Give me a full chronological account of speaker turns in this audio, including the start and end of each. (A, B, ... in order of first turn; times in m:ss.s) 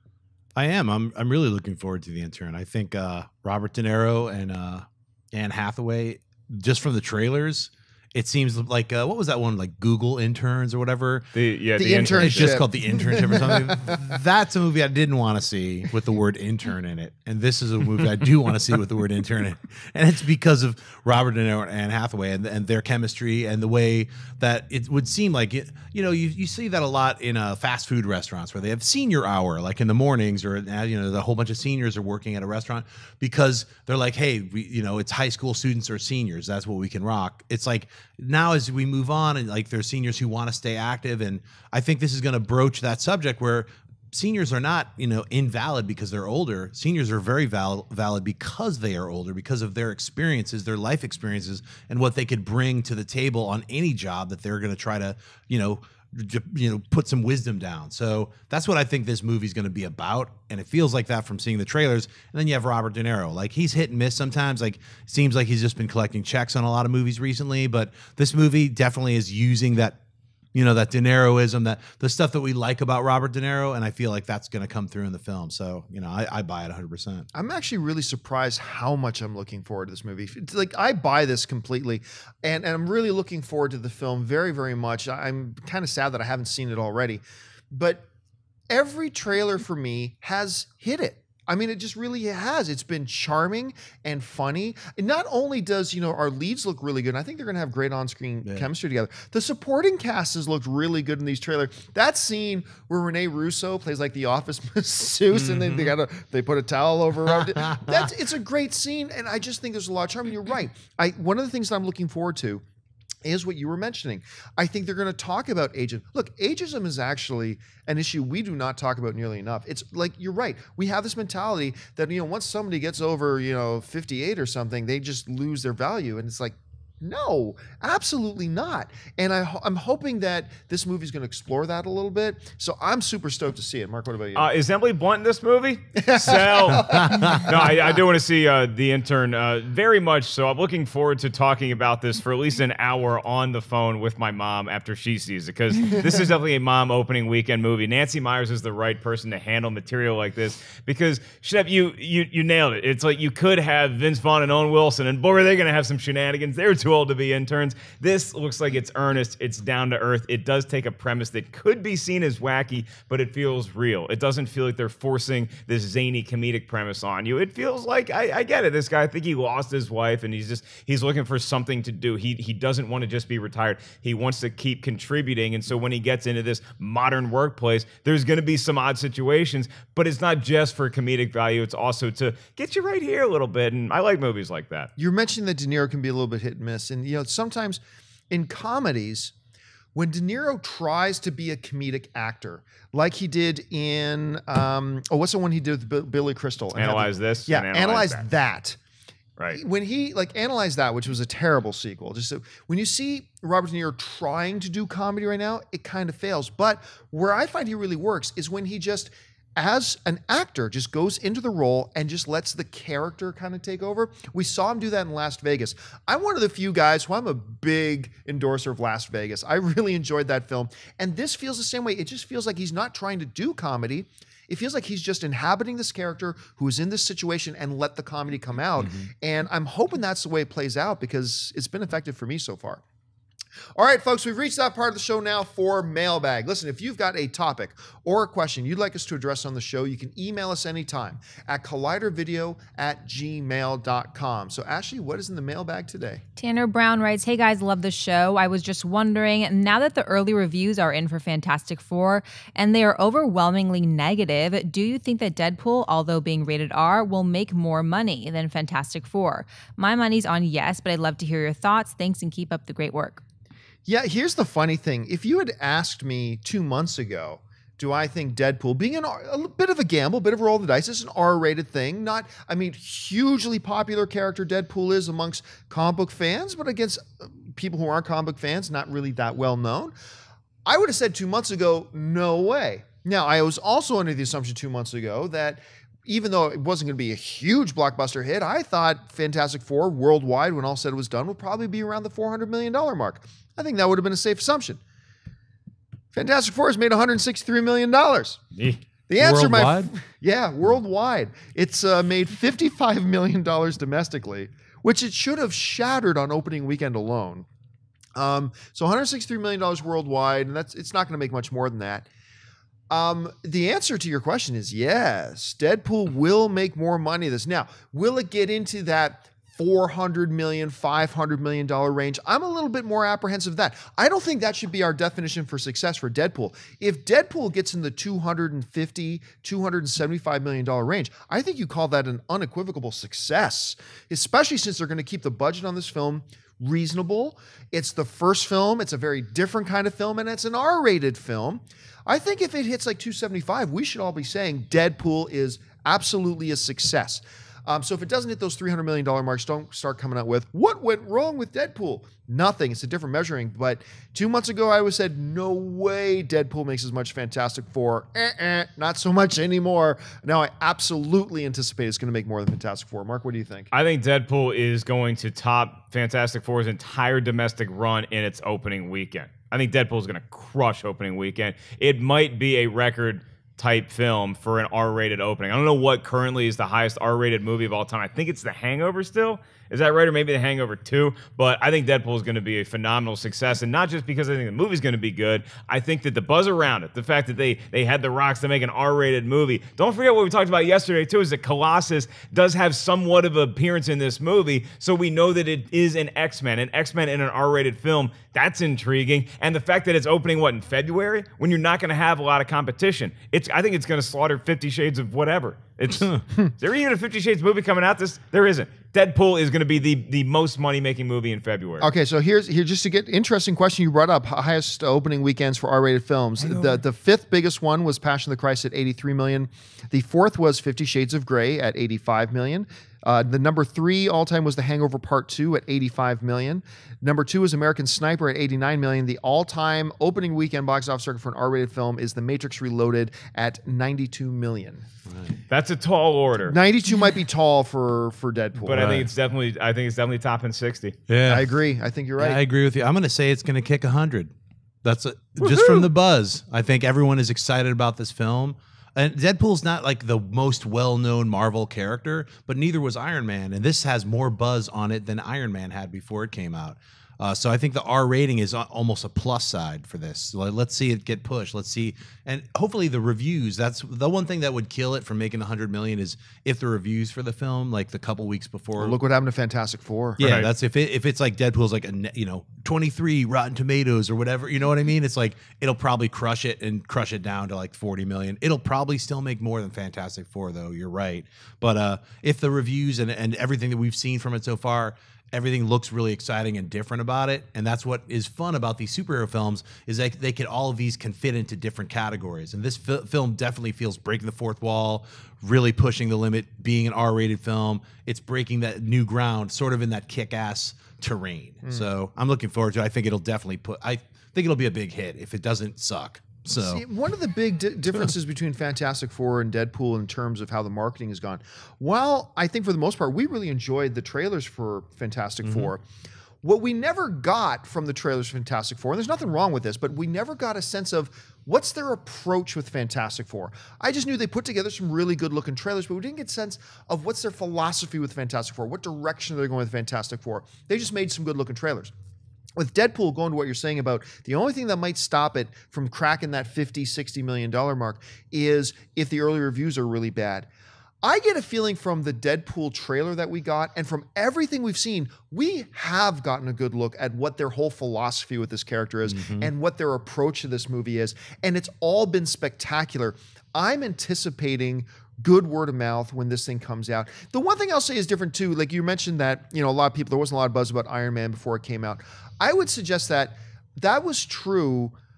0:00.5-0:11.3 A
0:11.3-0:12.6 B
0:11.8-0:14.0 C
0:12.1-1:10.0 A
1:10.5-1:17.3 A
1:17.3-1:28.0 C
1:28.7-1:52.6 C
1:45.3-1:45.9 A
1:47.3-1:48.1 A
1:53.2-2:14.5 C
2:14.3-3:04.9 B
2:16.0-2:17.6 C
2:16.9-2:17.5 A
3:05.0-3:09.3 C
3:09.9-3:18.8 C
3:16.7-3:18.2 B
3:19.5-3:52.8 C
3:48.8-3:49.1 A
3:53.8-4:06.2 C
4:06.4-4:23.2 D
4:23.8-4:39.9 C
4:40.6-4:54.8 C
4:56.1-4:58.4 C
4:58.5-4:58.8 B
4:59.1-5:07.5 C
4:59.2-4:59.9 A
5:08.1-5:12.0 C
5:12.9-6:03.7 C
6:03.7-6:51.9 B
6:51.8-7:14.8 C
6:56.4-6:56.8 B
7:15.1-7:15.4 A
7:15.5-7:16.6 B
7:16.5-7:18.9 C
7:18.6-7:21.0 B
7:18.7-7:19.1 A
7:21.1-7:21.5 A
7:21.2-7:22.4 C
7:22.2-7:24.3 A
7:24.8-7:49.0 A
7:25.4-7:25.9 B
7:48.8-7:50.2 C
7:50.2-8:26.8 A
7:50.2-7:50.5 B
8:21.6-8:21.9 C
8:26.6-8:35.8 C
8:35.4-8:35.7 A
8:36.4-8:51.9 C
8:52.6-9:00.5 C
9:01.0-9:24.9 C
9:09.1-9:09.5 A